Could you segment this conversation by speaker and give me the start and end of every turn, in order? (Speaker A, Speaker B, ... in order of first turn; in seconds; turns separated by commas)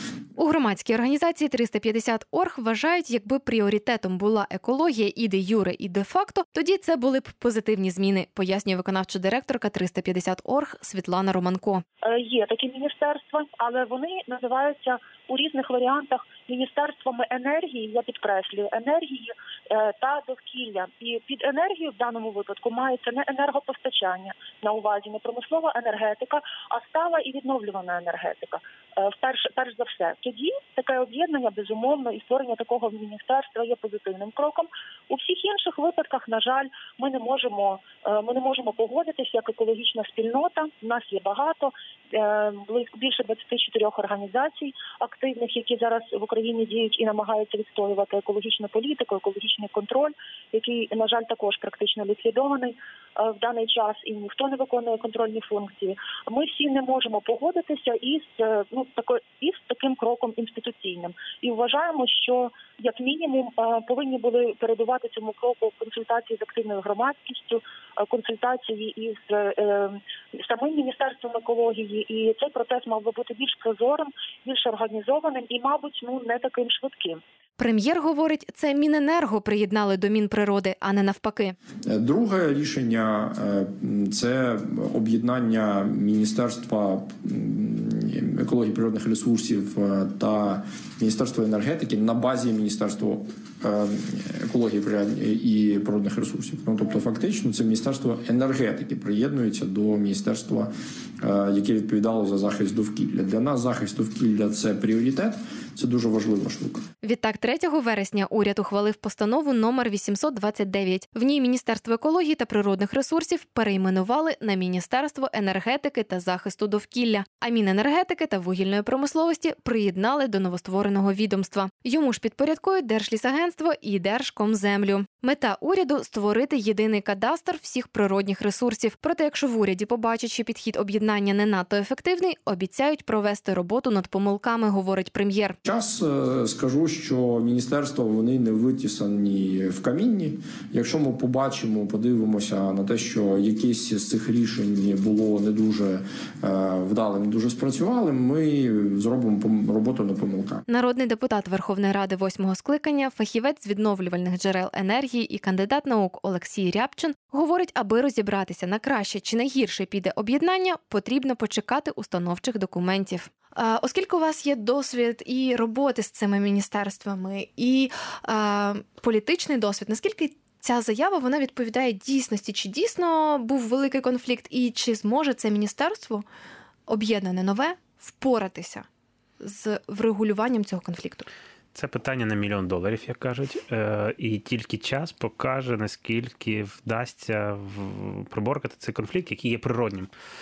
Speaker A: 0.4-11.8, Speaker B: 12.0-77.2, Speaker A: 77.6-81.5, Speaker C: 81.9-106.9, Speaker A: 107.0-135.6, Speaker C: 135.6-150.6, Speaker A: 150.7-176.2, Speaker A: 176.9-178.9, Speaker A: 179.4-181.3, Speaker D: 181.7-190.1